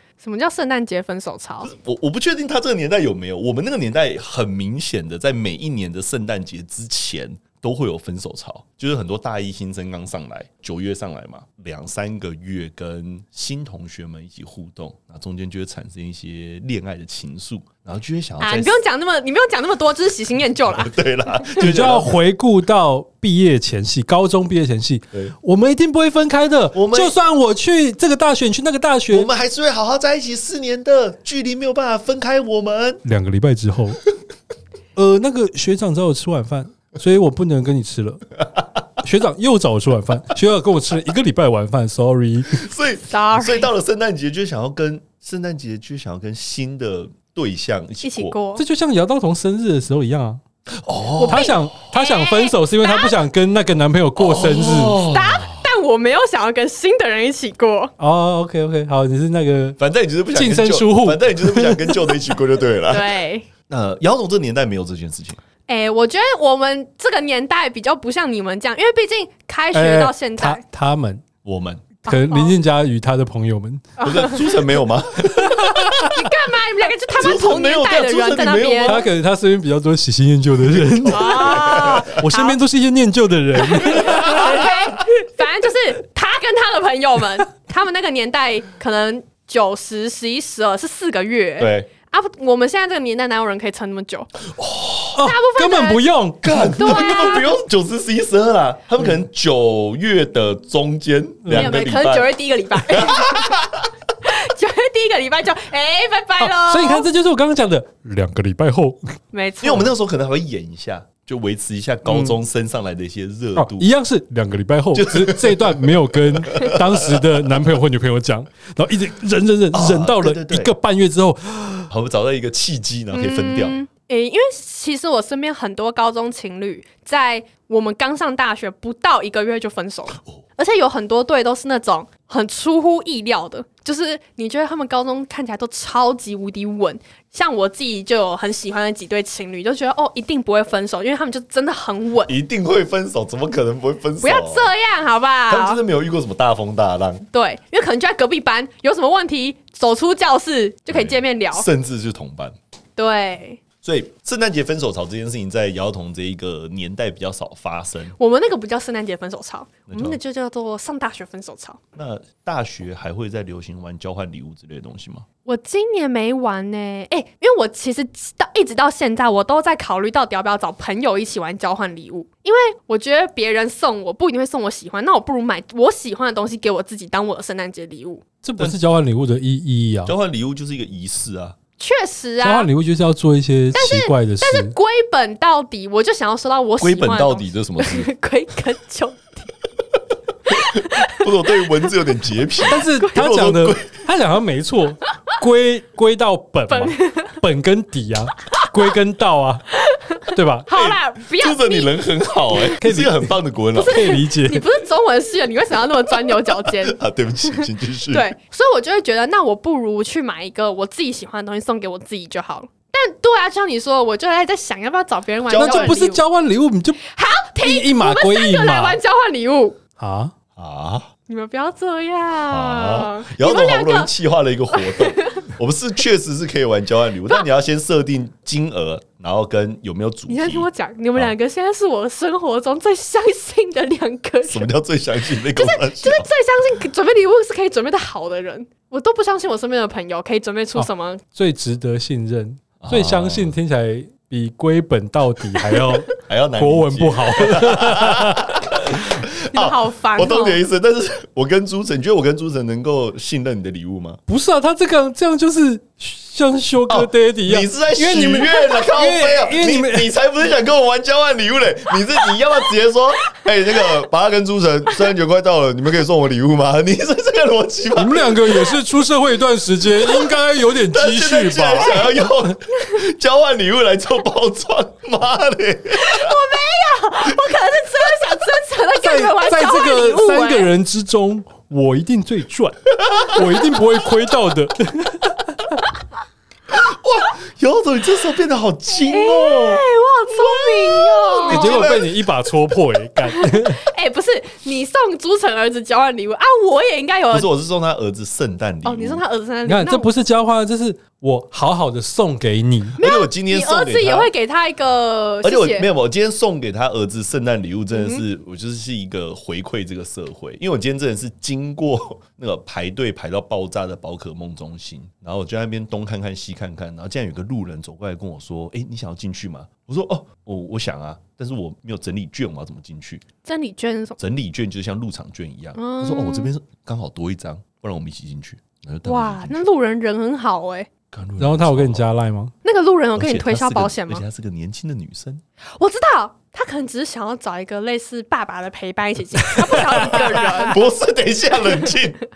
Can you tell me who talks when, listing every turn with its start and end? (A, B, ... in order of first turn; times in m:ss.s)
0:00.2-0:01.7 A
0:01.6-0:18.8 B
0:18.4-0:20.9 A
0:20.7-0:22.1 B
0:21.6-0:29.3 C
0:26.7-0:27.2 B
0:29.1-0:33.0 B
0:33.0-0:34.0 C
0:35.0-0:38.2 C
0:39.0-0:42.7 C
0:42.5-0:48.4 B
0:43.1-0:43.7 A
0:48.0-0:48.6 A
0:48.6-0:50.4 C
0:50.8-0:51.5 B
0:51.2-0:53.2 A
0:51.2-0:55.0 C
0:54.2-0:55.6 B
0:55.0-0:57.9 A
0:58.0-0:59.8 C
0:59.8-1:05.4 B
1:00.3-1:02.0 C
1:02.9-1:03.5 A
1:05.7-1:10.6 A
1:09.7-1:11.2 C
1:11.4-1:11.9 B
1:12.0-1:13.9 C
1:12.1-1:12.6 A
1:14.0-1:14.6 A
1:14.0-1:16.2 B
1:15.4-1:15.9 C
1:16.0-1:19.1 A
1:17.1-1:19.0 B
1:18.8-1:24.7 C
1:20.6-1:22.1 B
1:21.1-1:22.6 A
1:23.8-1:34.3 A
1:24.0-1:24.8 B
1:31.6-1:31.9 B
1:34.5-1:35.2 B
1:35.1-1:37.3 C
1:35.2-1:36.1 A
1:36.4-1:43.9 B
1:36.7-1:37.5 A
1:41.4-1:41.7 C
1:41.5-1:43.6 A
1:44.2-1:47.1 A
1:46.4-1:49.2 C
1:49.3-1:49.9 A
1:49.6-1:53.9 B
1:52.0-1:52.4 C
1:53.6-2:01.9 C
1:54.9-1:57.6 B
1:59.7-2:00.7 B
2:01.9-2:03.8 B
2:03.1-2:22.3 A
2:22.3-2:24.7 B
2:24.2-2:25.8 A
2:25.5-2:27.2 B
2:27.3-2:31.7 A
2:30.9-2:32.6 B
2:33.0-2:33.6 A
2:33.8-2:38.2 B
2:38.2-2:41.8 A
2:39.9-2:40.2 B
2:41.9-2:45.2 B
2:45.4-2:58.2 A
2:58.4-3:00.1 C
2:58.6-2:58.8 B
3:00.0-3:01.6 B
3:01.8-3:02.7 A
3:02.4-3:04.8 C
3:03.7-3:09.5 A
3:06.8-3:08.1 B
3:10.5-3:13.9 B
3:10.5-3:11.6 A
3:12.6-3:19.6 C
3:12.8-3:13.1 A
3:16.7-3:17.4 A
3:19.9-3:21.9 A
3:20.3-3:20.7 C
3:20.7-3:24.2 B
3:22.5-3:22.8 A
3:22.8-3:23.3 C
3:23.7-3:27.0 A
3:23.9-3:24.6 C
3:26.7-3:28.3 B
3:27.6-3:36.2 A
3:35.4-3:36.0 B
3:35.6-3:37.0 C
3:37.0-3:39.8 A
3:37.6-3:39.0 C
3:40.0-3:40.3 C
3:40.6-3:41.1 B
3:41.3-3:44.1 A
3:42.5-3:51.3 B
3:44.7-3:45.4 A
3:50.3-3:54.7 A
3:54.4-3:56.3 B
3:55.4-4:01.2 A
4:00.8-4:08.5 C
4:02.8-4:03.5 B
4:05.8-4:14.2 B
4:09.5-4:10.6 A
4:14.3-4:20.1 C
4:16.9-4:28.8 B
4:28.0-4:32.0 C
4:30.0-4:36.4 B
4:31.8-4:32.2 A
4:35.9-4:40.7 A
4:39.0-4:45.4 C
4:43.0-4:43.3 B
4:46.7-4:52.1 B
4:49.0-4:52.0 A
4:51.5-4:53.8 C
4:53.2-4:57.5 A
4:57.3-4:59.2 B
4:58.8-5:00.1 A
4:59.6-5:03.0 C
5:03.0-5:05.9 A
5:03.0-5:04.3 B
5:05.4-5:23.2 B
5:07.9-5:08.2 A
5:23.4-5:24.2 A
5:24.2-5:29.6 B
5:25.7-5:26.5 A
5:29.0-5:30.9 A
5:31.1-5:32.0 B
5:31.4-5:32.5 C
5:32.6-5:34.2 A
5:33.2-5:35.4 B
5:35.8-5:40.8 A
5:39.8-5:42.2 B
5:39.8-5:40.5 C
5:41.6-5:42.0 A